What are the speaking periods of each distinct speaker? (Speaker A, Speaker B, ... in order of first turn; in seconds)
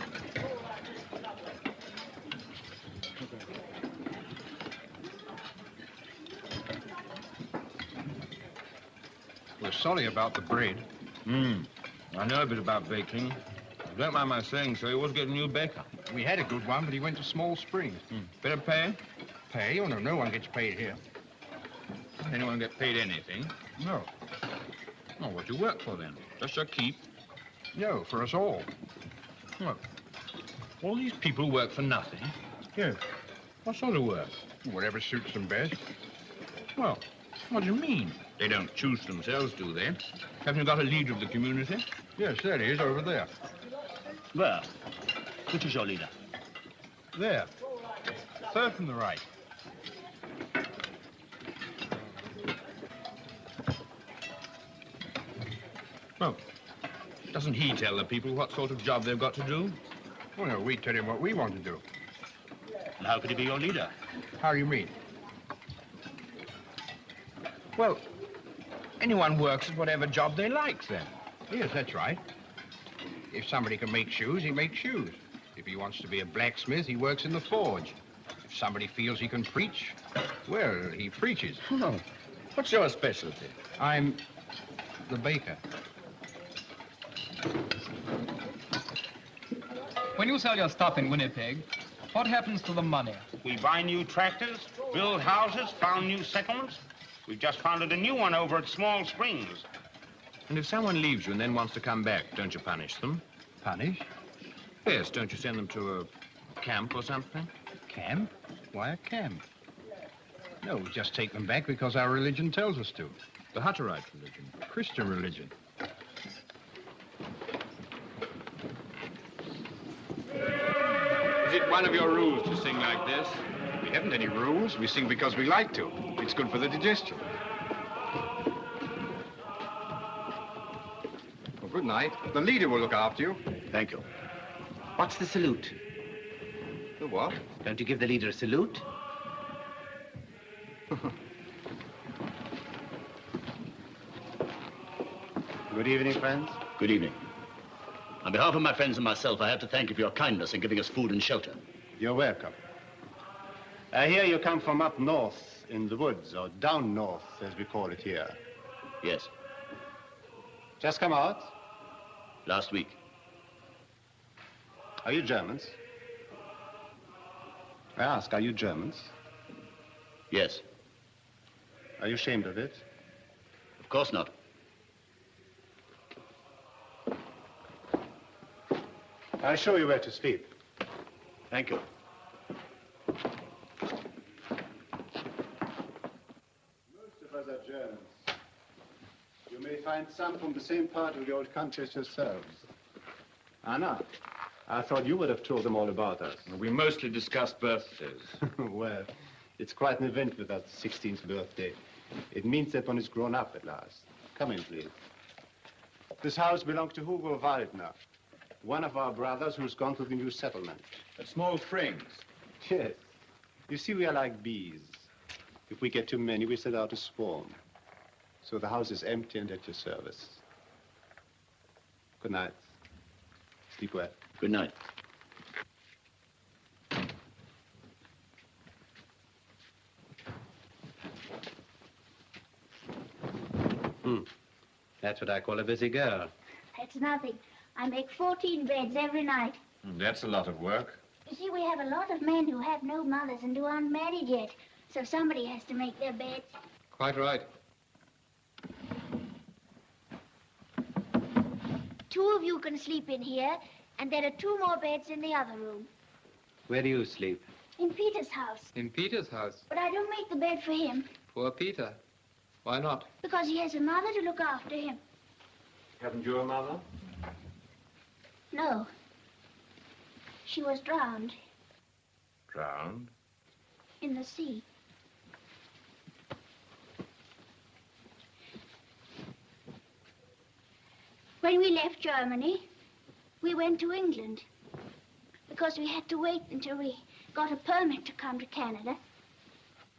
Speaker A: 9.6-10.9, 16.1-18.1, 19.5-21.0, 23.8-24.1, 27.7-28.7, 34.6-35.8, 36.8-37.0, 42.2-43.3, 47.1-47.5, 48.4-49.2, 60.4-61.8, 64.4-64.9, 67.8-68.0, 69.0-72.2, 73.3-81.6, 83.8-84.2, 85.0-85.6, 103.6-104.1, 107.9-109.4, 110.6-113.2, 114.6-115.5, 123.8-127.3, 131.6-133.4, 137.0-137.4
Speaker B: 11.2-15.9, 18.1-19.0, 22.2-23.7, 25.2-27.1, 30.8-33.0, 33.6-34.3, 37.5-41.9, 57.3-59.8, 81.7-82.0, 82.5-83.6, 100.5-103.2, 104.8-107.5, 113.5-114.6, 121.4-123.4, 196.5-198.4, 211.2-212.2, 239.8-241.0, 266.0-266.8, 272.5-273.1
Speaker C: 44.3-44.7, 45.5-46.1, 63.0-63.9, 133.7-134.0, 146.8-147.2, 148.2-151.6, 159.0-159.3, 162.4-163.0, 170.3-170.6, 173.8-174.3, 181.5-181.8, 224.4-224.7
Speaker D: 90.2-93.3, 246.9-247.5, 258.7-259.6, 261.3-262.0, 262.6-263.1
Speaker E: 93.4-99.7
Speaker F: 135.0-135.7, 137.6-138.8, 235.0-236.3, 256.7-257.4
Speaker G: 145.7-146.6, 152.0-152.6, 153.9-158.4, 160.8-161.5, 165.0-165.8, 167.9-169.1, 172.0-172.8, 179.4-180.5, 186.9-188.3, 189.5-192.7, 193.6-194.1, 194.7-196.5, 198.4-201.8, 202.3-204.9, 206.2-208.0, 208.6-210.9, 212.6-213.0, 213.7-215.1, 215.7-217.6, 218.4-220.4, 222.2-222.7, 223.7-224.2
Speaker H: 236.7-239.6, 241.3-246.5, 252.1-255.9, 257.8-258.7, 259.7-261.1, 263.2-265.0, 268.5-268.9, 270.4-271.4, 274.0-274.6, 281.4-282.7, 283.4-284.4, 285.5-289.0